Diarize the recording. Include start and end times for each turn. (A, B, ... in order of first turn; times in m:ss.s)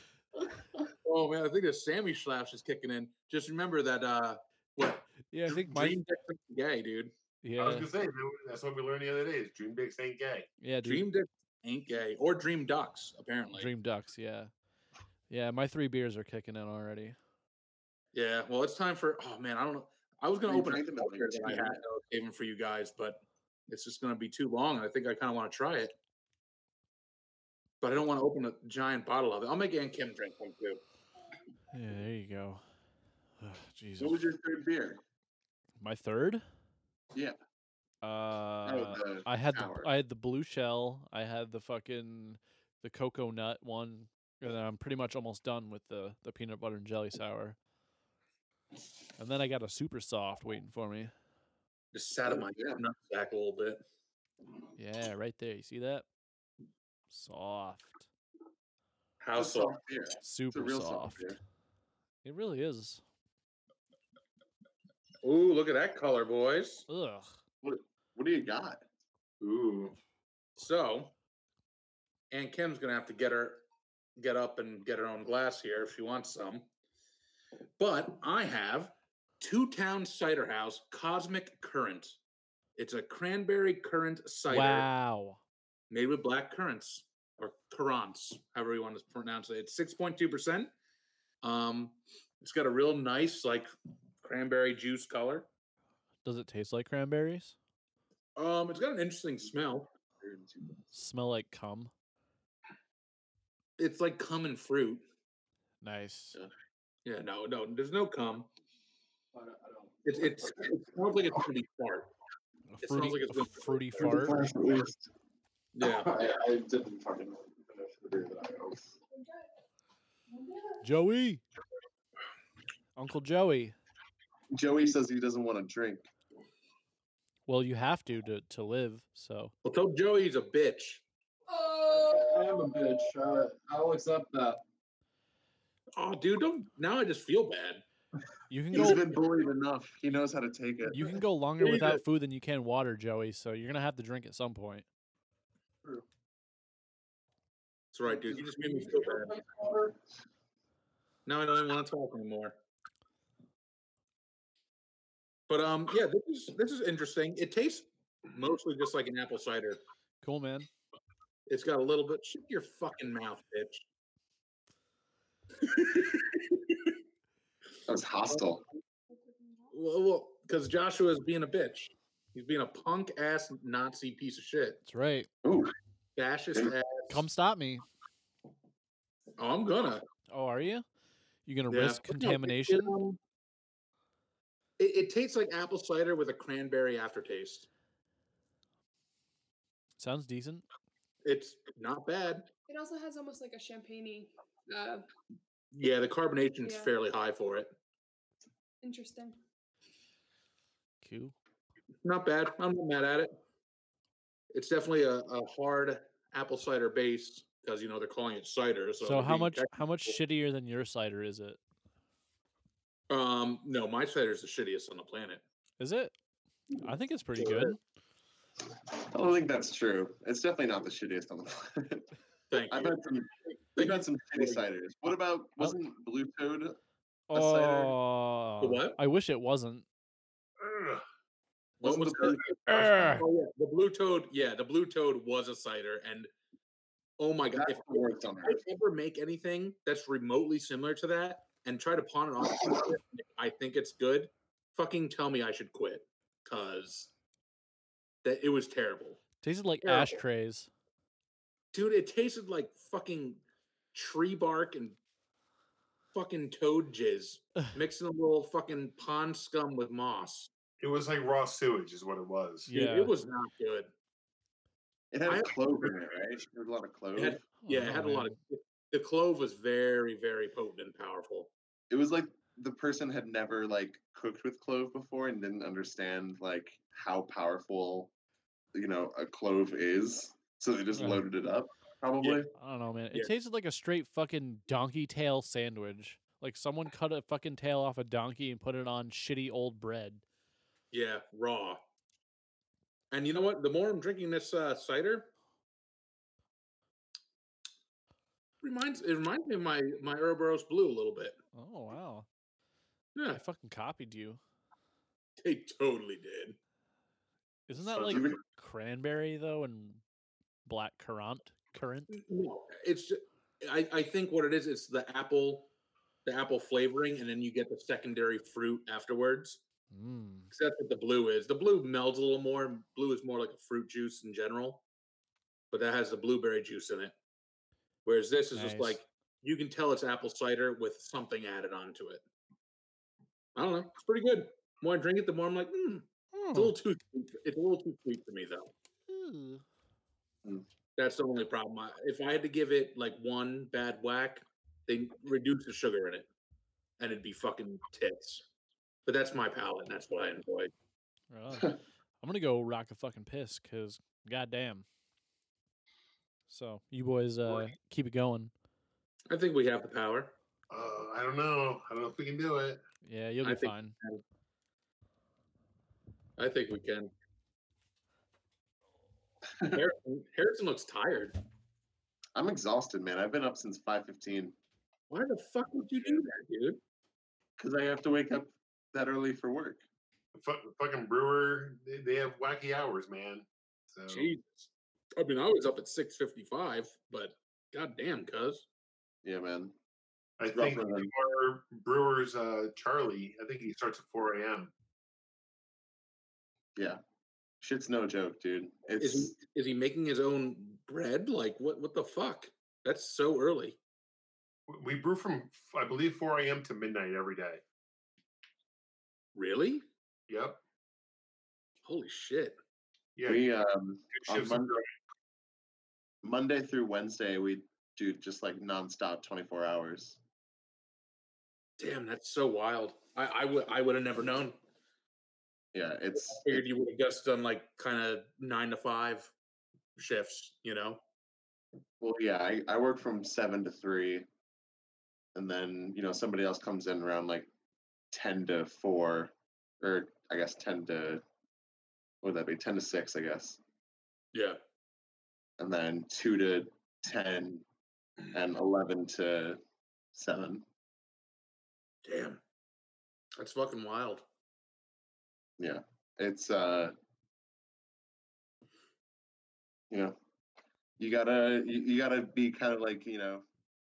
0:01.0-0:07.1 A
0:05.3-0:06.0 B
0:07.4-0:07.9 B
0:07.6-0:10.5 C
0:10.6-0:11.1 B
0:10.8-0:13.7 A
0:13.5-0:14.5 B
0:15.3-0:17.2 B
0:18.1-0:25.9 A
0:20.4-0:21.8 D
0:27.8-0:30.8 A
0:31.7-0:32.6 B
0:33.4-0:34.2 B
0:34.0-0:35.0 D
0:35.8-0:36.4 B
0:38.0-0:47.6 B
0:38.6-0:39.9 D
0:49.2-0:51.1 B
0:51.9-0:53.8 A
0:52.3-0:52.8 D
0:54.8-0:56.0 B
0:57.1-0:58.1 B
0:59.2-0:59.7 A
0:59.3-1:01.4 D
1:00.2-1:01.4 B
1:02.2-1:03.0 B
1:05.2-1:06.9 A
1:06.9-1:07.4 B
1:07.6-1:08.8 D
1:09.4-1:10.0 C
1:10.6-1:11.1 A
1:12.3-1:13.6 A
1:14.2-1:16.7 A
1:17.8-1:22.2 A
1:22.8-1:24.9 A
1:24.5-1:25.4 B
1:25.9-1:30.7 A
1:31.4-1:33.7 A
1:34.2-1:35.5 A
1:36.2-1:37.6 B
1:38.4-1:39.9 A
1:40.2-1:40.8 D
1:40.9-1:41.9 B
1:43.8-1:45.0 A
1:45.8-1:46.4 B
1:47.0-1:48.5 A
1:49.3-1:51.0 E
1:50.0-1:52.1 A
1:52.7-1:54.4 B
1:52.8-1:54.2 A
1:54.0-1:54.9 E
1:54.1-1:55.0 D
1:55.7-1:56.1 A
1:55.8-1:59.0 E
2:00.8-2:01.4 B
2:03.0-2:03.8 B
2:04.5-2:06.1 D
2:07.5-2:09.5 B
2:09.6-2:11.0 A
2:11.5-2:13.1 F
2:11.9-2:14.6 E
2:16.0-2:17.8 A
2:18.5-2:19.1 B
2:18.7-2:21.2 D
2:20.9-2:24.8 B
2:21.6-2:22.0 A
2:27.9-2:29.3 A
2:28.1-2:30.0 E
2:31.2-2:32.6 A
2:35.5-2:39.8 A
2:40.2-2:40.7 B
2:41.5-2:43.8 A
2:45.7-2:46.2 A
2:47.9-2:48.6 D
2:49.7-2:54.8 A
2:54.8-2:55.3 B
2:55.4-2:55.7 D
2:56.2-2:57.2 A
2:57.1-2:57.8 B
2:59.4-3:00.0 A
3:00.3-3:00.8 B
3:01.4-3:02.9 B
3:01.7-3:03.2 A
3:04.8-3:07.7 A
3:10.0-3:10.6 B
3:11.2-3:12.5 A
3:12.7-3:15.0 F
3:15.7-3:17.7 A
3:16.6-3:16.9 F
3:18.8-3:19.4 F
3:21.0-3:21.3 B
3:22.0-3:23.4 A
3:24.5-3:30.2 A
3:29.0-3:31.6 B
3:33.1-3:35.4 A
3:35.8-3:36.1 B
3:36.8-3:37.8 B
3:37.4-3:37.7 A
3:39.0-3:42.1 D
3:42.5-3:43.0 A
3:42.7-3:46.8 D
3:43.7-3:44.6 A
3:47.3-3:49.8 B
3:47.3-3:48.0 D
3:48.6-3:49.0 A
3:50.6-3:51.0 C
3:51.8-3:56.3 A
3:51.8-3:52.4 D
3:52.7-3:53.2 B
3:57.2-4:07.1 A
3:57.5-3:58.6 D
4:08.2-4:09.2 A
4:09.4-4:10.7 B
4:09.8-4:10.2 A
4:11.7-4:13.4 A
4:13.9-4:15.0 A
4:16.1-4:20.5 A
4:20.8-4:22.7 C
4:22.7-4:23.1 B
4:22.7-4:23.9 A
4:25.1-4:27.4 D
4:25.3-4:25.9 A
4:27.2-4:31.5 A
4:27.6-4:28.3 B
4:31.9-4:38.1 D
4:38.7-4:42.5 D
4:40.9-4:41.2 B
4:42.5-4:50.2 B
4:50.9-4:51.8 A
4:53.1-4:55.3 A
4:58.6-5:01.4 A
5:01.5-5:02.3 B
5:03.1-5:03.4 A
5:03.3-5:04.4 B
5:05.4-5:06.6 A
5:07.7-5:10.0 B
5:07.9-5:08.4 D
5:10.6-5:12.1 B
5:12.1-5:15.7 A
5:16.2-5:19.6 A
5:19.9-5:20.5 B
5:20.5-5:24.8 A
5:25.7-5:27.1 A
5:28.0-5:32.2 A
5:28.5-5:29.0 B
5:33.5-5:38.7 A
5:36.3-5:36.7 B
5:39.1-5:39.6 B
5:41.0-5:46.3 A
5:47.0-5:48.4 A
5:49.0-5:50.7 A
5:51.3-5:54.8 B
5:56.5-5:58.5 B
5:59.3-6:00.3 A
6:00.7-6:02.8 C
6:03.0-6:03.9 B
6:03.4-6:04.2 A
6:06.4-6:07.1 A
6:09.7-6:11.4 A
6:12.3-6:14.6 D
6:15.1-6:16.8 A
6:17.6-6:19.8 D
6:20.3-6:24.3 C
6:24.1-6:28.6 A
6:29.2-6:29.7 D
6:30.4-6:34.7 C
6:30.5-6:31.1 D
6:36.8-6:37.0 D
6:37.6-6:39.3 D
6:39.0-6:43.8 A
6:44.7-6:47.6 C
6:49.3-6:49.8 A
6:50.3-6:50.6 C
6:51.8-6:52.6 A
6:53.2-6:53.4 C
6:53.2-6:54.8 D
6:54.1-6:54.9 C
6:56.2-7:00.2 D
7:01.8-7:04.6 A
7:05.7-7:06.6 D
7:06.1-7:09.3 A
7:10.0-7:11.0 A
7:12.0-7:14.3 D
7:15.3-7:17.5 D
7:18.1-7:21.2 D
7:22.2-7:23.6 D
7:24.3-7:24.6 A
7:25.6-7:27.6 D
7:28.3-7:29.6 D
7:30.1-7:30.6 D
7:32.0-7:32.4 A
7:33.4-7:34.2 A
7:35.6-7:37.0 D
7:39.9-7:40.2 D
7:41.0-7:43.5 D